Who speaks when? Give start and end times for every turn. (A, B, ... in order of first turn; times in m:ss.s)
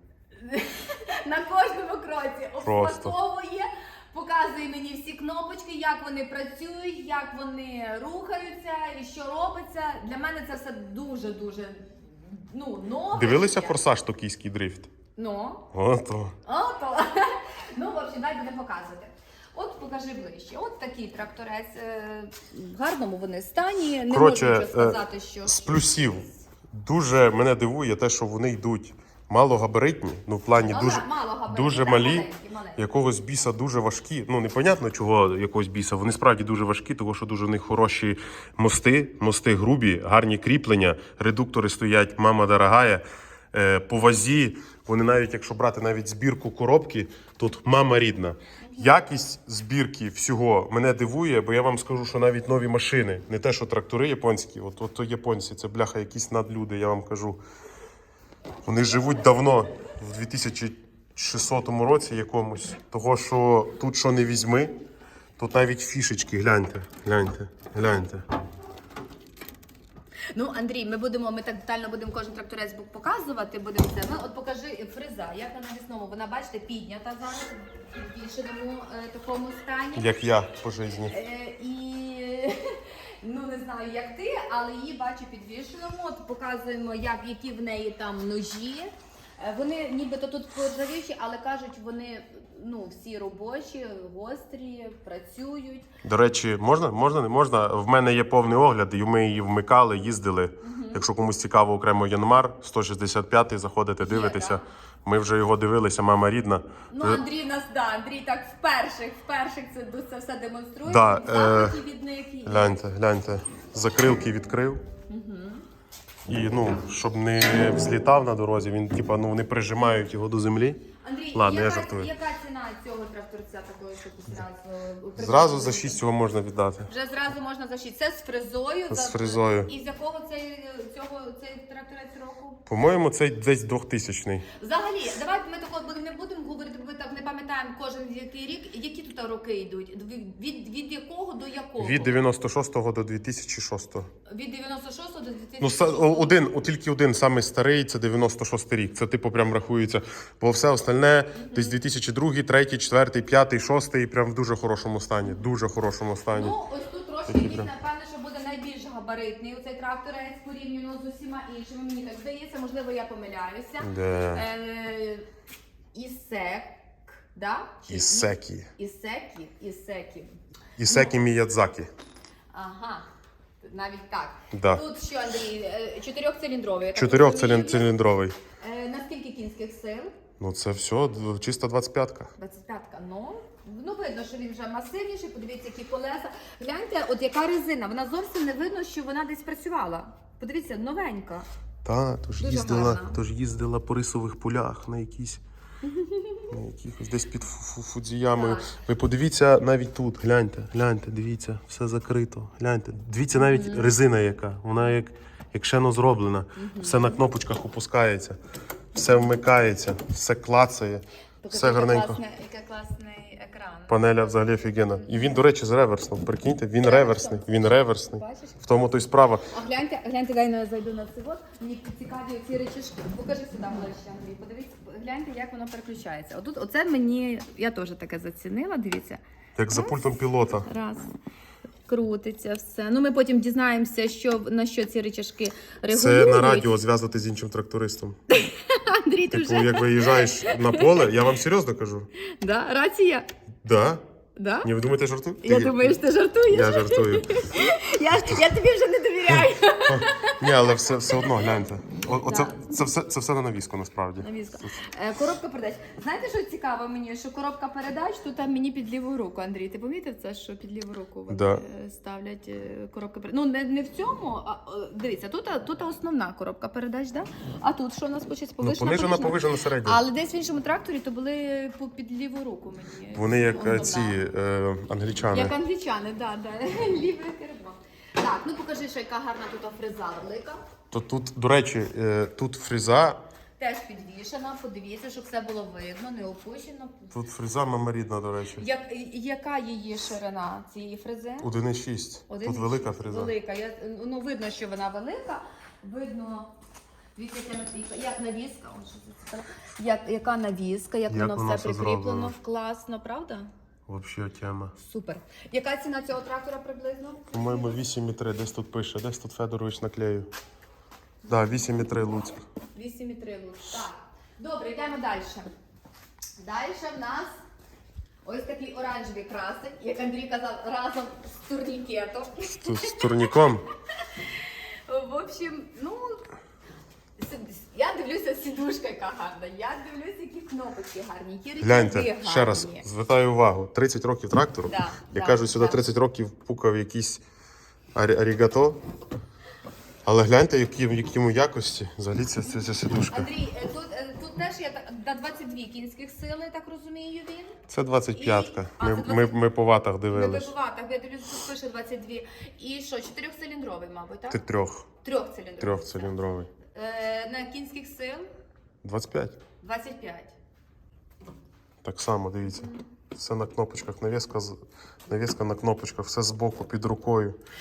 0:00.4-0:13.8 A
0:02.6-0:03.2 B
0:13.1-0:14.9 B
0:15.2-0:15.7 A
0:15.7-0:16.4 B
0:16.4-0:26.3 A
0:24.1-0:57.4 B
0:30.5-0:32.9 A
0:48.6-0:48.9 A
0:58.6-1:04.7 B
1:05.4-1:08.2 B
1:10.3-1:20.1 A
1:19.9-1:21.2 B
1:21.0-1:35.8 A
1:36.0-1:47.2 B
1:40.6-1:41.0 A
1:44.0-1:44.6 A
1:46.9-1:52.8 A
1:50.8-1:51.8 B
1:52.4-1:54.8 B
1:55.1-1:55.6 A
1:56.3-2:00.8 B
2:01.0-2:06.0 A
2:01.3-2:02.1 B
2:05.2-2:06.9 B
2:06.9-2:12.6 A
2:08.9-2:09.7 B
2:12.7-2:14.5 B
2:14.6-2:22.2 A
2:21.8-2:24.1 B
2:24.3-2:26.5 A
2:25.6-2:36.6 B
2:31.3-2:31.8 A
2:36.3-2:45.3 A
2:37.3-2:37.7 B
2:43.8-2:44.4 B
2:45.9-2:51.2 A
2:47.9-2:48.7 B
2:50.8-2:51.9 B
2:52.5-2:53.1 A
2:53.6-2:57.9 A
2:54.5-2:54.8 B
2:56.9-2:58.4 B
2:58.6-3:00.1 A
3:00.4-3:02.3 B
3:02.4-3:11.4 A
3:11.8-3:15.4 B
3:12.4-3:13.2 A
3:15.8-3:16.5 A
3:16.5-3:28.4 B
3:18.3-3:18.8 A
3:23.3-3:23.9 A
3:26.6-3:27.2 A
3:28.9-3:32.2 B
3:31.4-3:34.3 A
3:33.9-3:39.5 B
3:34.9-3:35.3 A
3:36.8-3:38.7 A
3:39.5-3:49.2 A
3:49.6-3:50.7 B
3:49.7-3:51.1 A
3:51.9-3:56.7 A
3:55.9-3:58.2 B
3:58.3-4:01.0 A
3:59.3-4:02.1 B
4:02.2-4:03.3 A
4:03.6-4:04.0 B
4:04.4-4:04.7 A
4:04.6-4:06.0 B
4:05.4-4:12.7 A
4:06.5-4:07.3 B
4:09.8-4:14.8 B
4:14.2-4:34.2 A
4:21.3-4:21.6 B
4:28.6-4:30.0 B
4:33.1-4:35.5 B
4:35.3-4:40.6 A
4:40.9-4:43.2 B
4:43.6-4:47.1 A
4:47.1-4:48.6 B
4:48.6-4:51.5 A
4:51.4-4:53.3 B
4:52.3-4:56.5 A
4:57.1-5:03.5 A
5:01.1-5:02.3 B
5:03.9-5:04.7 B
5:04.8-5:07.8 A
5:07.3-5:10.3 B
5:11.2-5:11.6 A
5:11.3-5:12.4 B
5:12.7-5:15.5 A
5:16.4-5:17.4 A
5:18.2-5:23.4 A
5:22.5-5:23.6 B
5:24.0-5:26.2 A
5:27.2-5:32.8 A
5:31.6-5:37.2 B
5:34.7-5:35.8 A
5:37.9-5:38.8 B
5:40.0-5:43.3 B
5:43.1-5:47.5 A
5:47.7-5:50.5 B
5:48.1-5:49.3 A
5:50.1-5:54.4 A
5:54.3-5:54.9 B
5:55.0-5:56.1 A
5:55.6-5:56.5 B
5:56.7-5:58.2 A
5:58.8-5:59.4 B
5:59.6-6:00.3 A
6:01.8-6:07.4 B
6:02.4-6:02.8 A